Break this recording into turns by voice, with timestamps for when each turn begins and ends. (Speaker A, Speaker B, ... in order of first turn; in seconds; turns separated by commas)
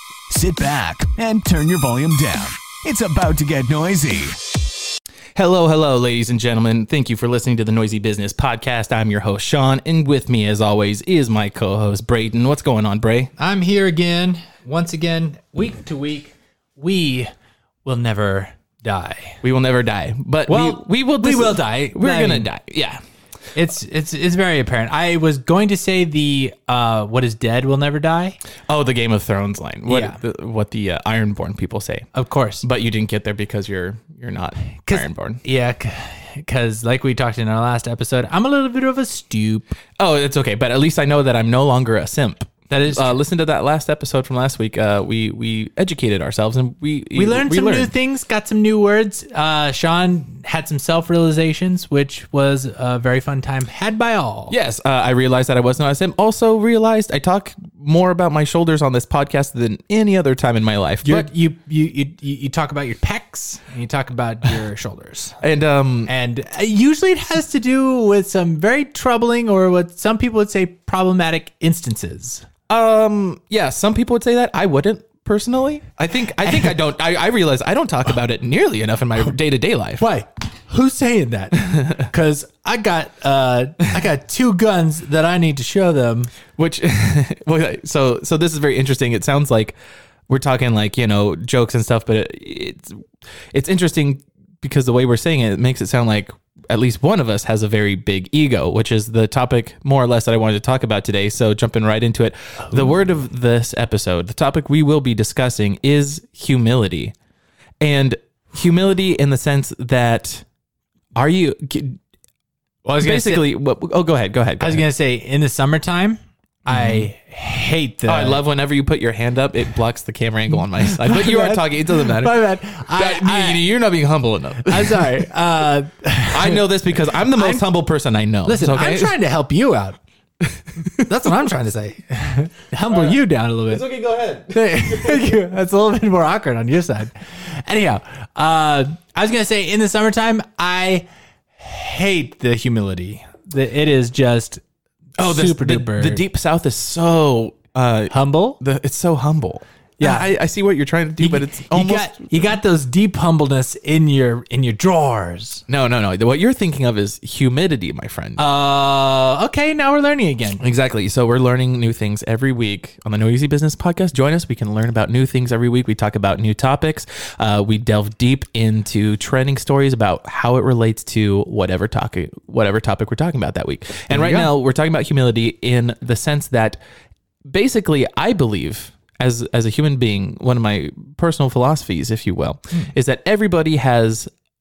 Speaker A: 0.3-4.4, Speaker B: 5.3-13.3, Speaker C: 13.4-17.3, Speaker C: 17.9-19.4, Speaker B: 19.4-23.0, Speaker C: 20.5-22.5, Speaker C: 23.6-28.4, Speaker B: 28.7-32.1, Speaker C: 29.9-30.2, Speaker C: 32.1-32.6, Speaker B: 32.6-35.4, Speaker C: 34.9-39.8, Speaker B: 40.0-47.9, Speaker C: 42.7-43.1, Speaker C: 47.1-54.5, Speaker B: 54.5-61.3, Speaker C: 61.0-65.4, Speaker B: 65.4-66.1, Speaker C: 66.1-72.5, Speaker B: 72.7-80.1, Speaker C: 80.0-86.3, Speaker B: 81.7-82.0, Speaker B: 86.6-89.8, Speaker B: 90.3-93.0, Speaker B: 93.5-107.1, Speaker B: 107.8-110.5, Speaker B: 111.2-112.0, Speaker C: 112.8-113.5, Speaker B: 113.0-114.8, Speaker C: 114.6-118.4, Speaker B: 116.7-117.1, Speaker B: 118.1-125.3, Speaker C: 120.8-123.7, Speaker C: 124.7-127.7, Speaker B: 126.3-129.1, Speaker C: 128.4-130.0, Speaker B: 130.5-130.9, Speaker C: 131.1-133.9, Speaker B: 132.9-135.4, Speaker C: 134.5-141.1, Speaker C: 141.6-144.6, Speaker C: 145.2-146.2, Speaker B: 145.2-152.6, Speaker C: 148.1-148.6, Speaker C: 150.0-150.3, Speaker C: 151.2-155.6, Speaker B: 155.7-158.4, Speaker C: 158.4-160.6, Speaker B: 160.6-176.8, Speaker C: 174.1-174.5, Speaker B: 177.4-184.3